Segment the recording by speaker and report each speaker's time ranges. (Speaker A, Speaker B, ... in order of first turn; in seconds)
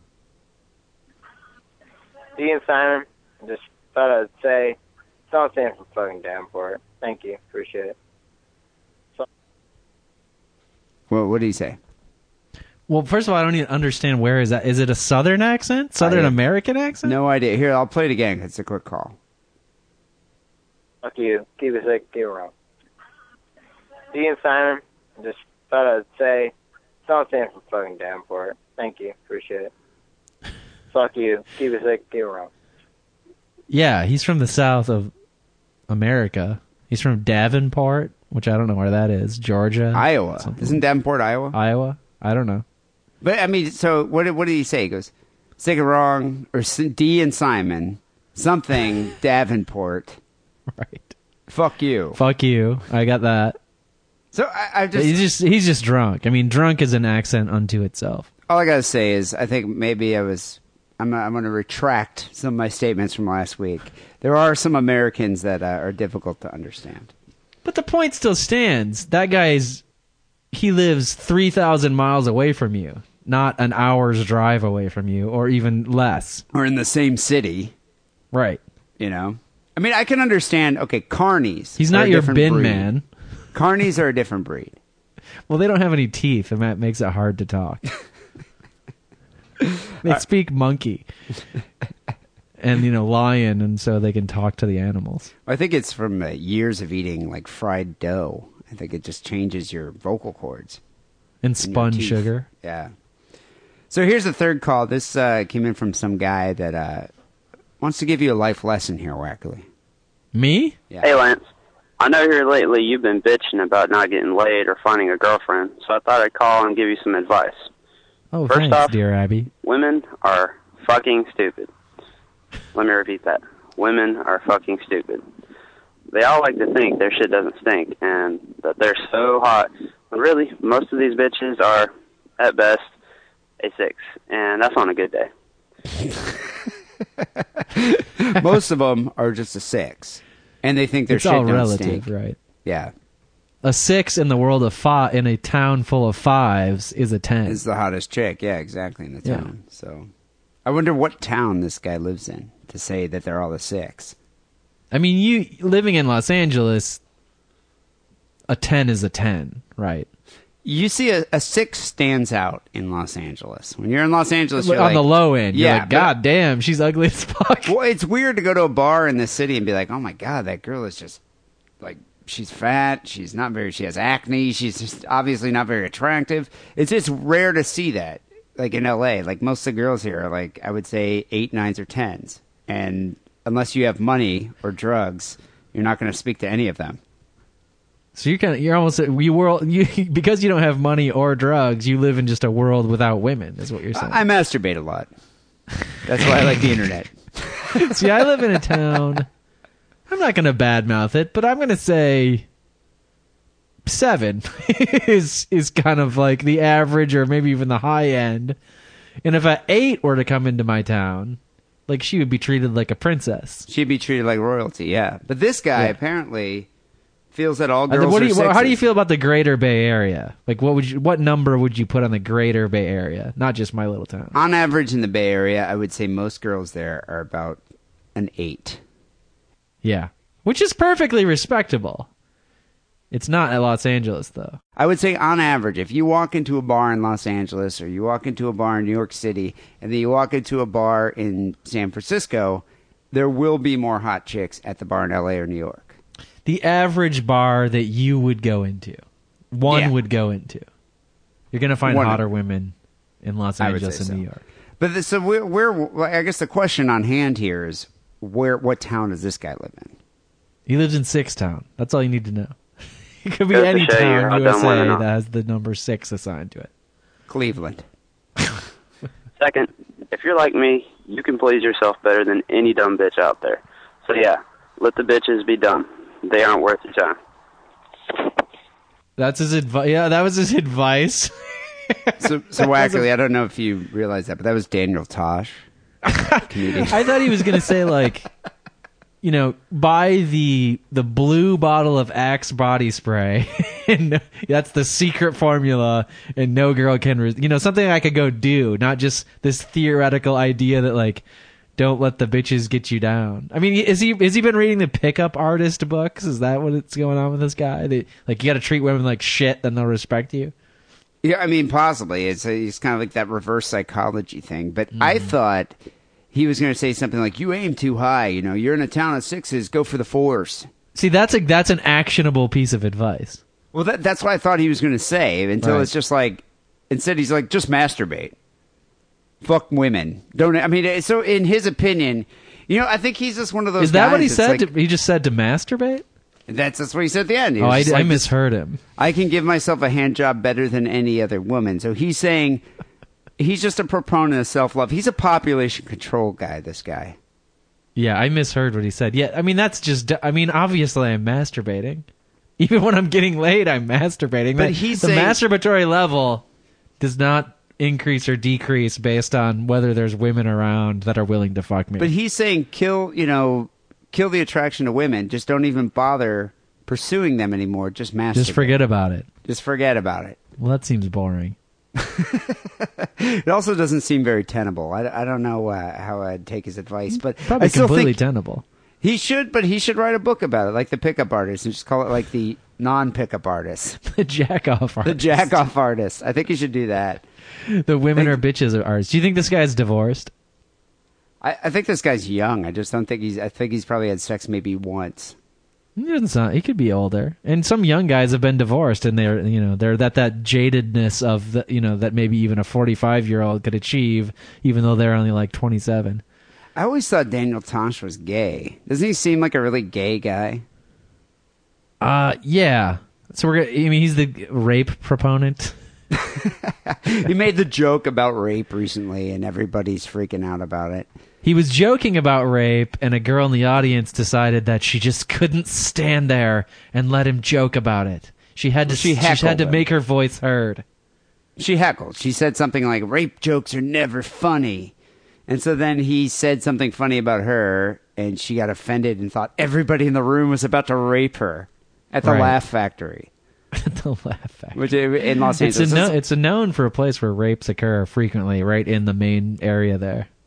Speaker A: 2.4-4.8, 5.3-8.0, 21.0-22.5, 24.1-26.5, 27.1-29.7, 30.9-32.5
Speaker B: 11.1-11.8, 16.0-16.4, 17.0-19.2, 39.9-41.5, 43.2-50.2, 51.5-52.2, 54.3-55.2, 58.5-67.1, 76.5-77.7, 79.0-82.9, 83.5-84.8, 95.5-100.8, 101.6-102.9, 103.9-107.1, 107.8-109.7, 137.7-142.1, 142.6-142.9, 147.4-150.1, 150.6-154.2, 160.6-166.1, 167.7-171.2, 171.8-187.0, 193.9-195.1, 196.0-198.1, 213.7-216.7, 217.3-218.8, 224.3-227.6, 228.1-228.8, 234.8-246.0, 249.7-249.9, 251.8-252.2, 253.6-254.2, 254.8-259.9, 267.3-267.8, 282.2-285.6, 286.4-287.6, 311.2-315.8, 316.3-320.7, 323.7-328.3, 329.4-334.7, 336.5-338.3, 339.0-342.6, 343.4-347.2, 354.6-355.4, 362.0-368.8, 369.4-370.4, 371.9-378.1, 379.0-384.0, 385.0-387.2, 391.4-395.4, 406.7-410.6, 416.2-421.1, 428.9-429.8, 431.6-434.9, 435.5-443.3, 444.7-446.1
Speaker C: 12.9-17.1, 33.7-35.1, 35.9-40.8, 41.5-42.6, 50.8-51.1, 52.1-53.6, 54.9-58.3, 67.6-69.8, 70.5-76.4, 78.3-78.6, 81.8-83.0, 85.5-87.8, 90.0-91.0, 92.6-95.3, 101.4-102.5, 110.3-110.8, 118.3-119.5, 141.1-142.4, 143.6-147.6, 149.2-149.5, 154.9-157.0, 158.5-160.1, 164.6-167.7, 188.1-194.2, 197.7-199.2, 200.1-202.4, 203.8-208.6, 209.2-213.7, 217.9-224.4, 229.8-232.1, 233.1-234.6, 246.4-250.7, 251.5-254.4, 260.7-262.6, 263.2-266.7, 279.2-281.3, 281.9-283.1, 286.1-288.3, 289.2-301.2, 301.8-310.5, 314.9-315.3, 320.9-323.4, 325.6-325.9, 333.8-336.0, 337.6-338.8, 347.9-352.0, 352.6-356.4, 357.0-362.1, 368.3-369.3, 370.6-371.6, 377.1-378.6, 384.1-385.5, 387.6-390.3, 395.9-406.2, 412.0-415.7, 421.4-430.8, 442.2-442.6, 443.7-450.3
Speaker D: 111.0-111.4, 112.0-117.7, 118.5-119.0, 119.6-121.7, 122.7-125.2, 126.1-132.9, 133.6-135.3, 263.5-265.0, 269.4-277.1